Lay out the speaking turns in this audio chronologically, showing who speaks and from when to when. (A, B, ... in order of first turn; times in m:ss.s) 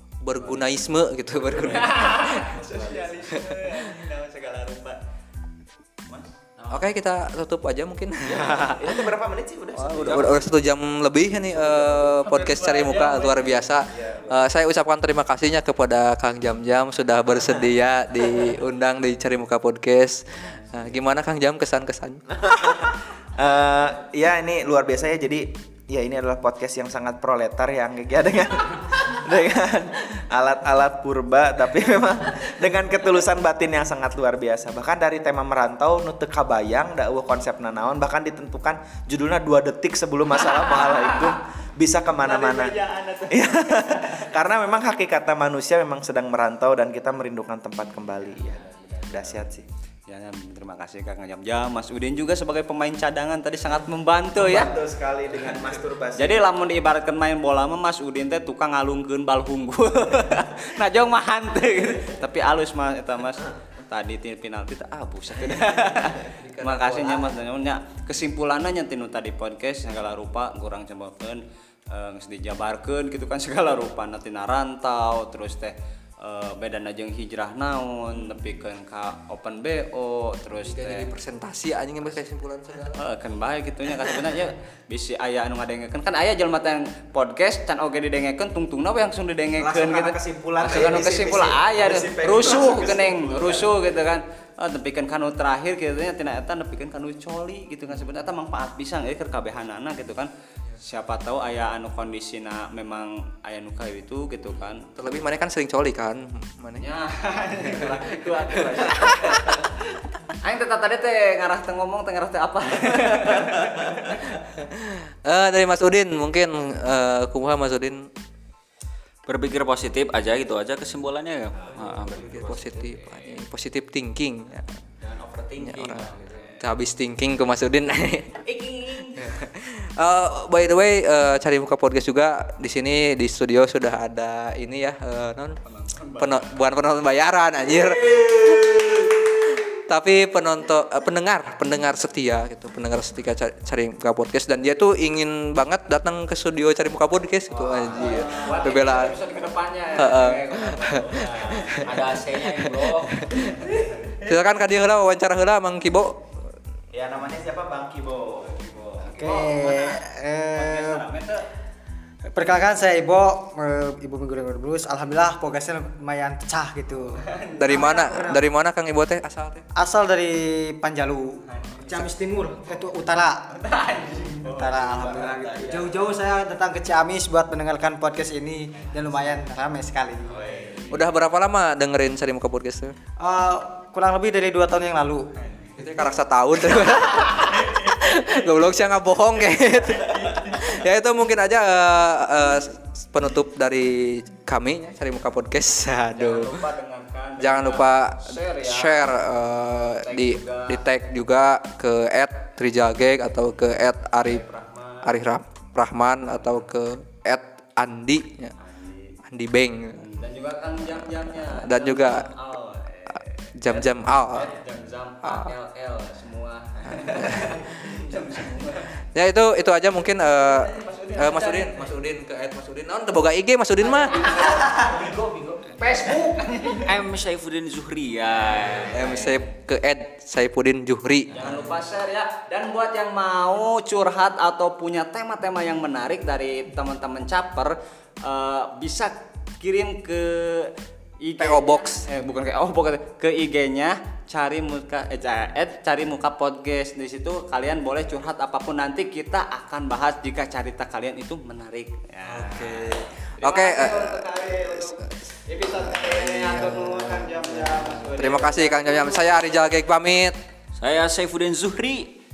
0:00.2-0:02.5 A
0:00.4-0:00.7 B
0:01.4-0:05.0 B
0:02.6-0:03.1 C
0:03.3-0:03.9 A
0:06.1-0:06.8 B
0:06.7-0:09.1 A
0:08.3-0:10.5 C
0:09.7-0:22.2 A
0:11.6-0:13.7 B
0:13.9-0:14.4 C
0:20.5-0:20.8 B
0:22.3-0:42.8 C
0:40.8-0:41.3 B
0:42.2-0:43.7 B
0:43.3-0:49.6 C
0:48.3-0:49.4 B
0:50.1-0:54.8 B
0:54.3-0:56.4 C
0:56.1-1:21.1 B
1:06.2-1:07.3 A
1:20.5-1:23.0 A
1:23.0-1:44.9 B
1:29.6-1:33.8 C
1:45.0-1:46.9 A
1:46.8-1:49.8 B
1:47.6-1:49.6 A
1:50.3-1:54.2 B
1:54.4-1:58.1 A
1:59.3-2:03.4 D
2:01.8-2:04.8 A
2:05.0-2:06.6 D
2:05.6-2:08.4 A
2:06.1-2:06.6 B
2:08.5-2:09.2 D
2:09.1-2:15.6 A
2:15.6-2:16.6 B
2:16.2-2:29.1 A
2:27.5-2:28.5 C
2:27.9-2:32.0 B
2:29.9-2:31.8 A
2:31.8-2:33.2 D
2:32.4-2:36.4 A
2:36.9-2:39.4 C
2:39.1-2:40.0 B
2:39.2-2:41.0 E
2:40.5-2:41.5 B
2:42.3-2:48.4 E
2:47.1-2:47.9 B
2:47.6-2:49.6 A
2:49.8-2:53.5 E
2:51.4-2:52.9 B
2:53.5-2:55.9 B
2:54.3-3:00.5 E
3:00.2-3:01.1 B
3:00.9-3:03.0 A
3:03.2-3:05.3 E
3:05.4-3:05.8 B
3:05.8-3:16.6 A
3:07.4-3:07.6 B
3:09.9-3:10.6 B
3:16.1-3:19.3 B
3:17.4-3:24.5 A
3:19.8-3:20.8 B
3:24.2-3:25.2 B
3:25.0-3:28.5 A
3:28.6-3:29.2 B
3:29.2-3:30.1 A
3:30.0-3:38.9 B
3:31.0-3:32.3 A
3:33.6-3:34.6 A
3:35.2-3:35.5 A
3:36.9-3:37.9 A
3:39.1-3:44.4 A
3:40.2-3:41.9 B
3:43.8-3:46.9 B
3:46.8-3:49.3 D
3:48.5-3:49.3 B
3:48.9-3:51.8 A
3:51.3-4:19.1 B
4:01.4-4:02.1 A
4:12.2-4:20.4 A
4:20.8-4:22.2 D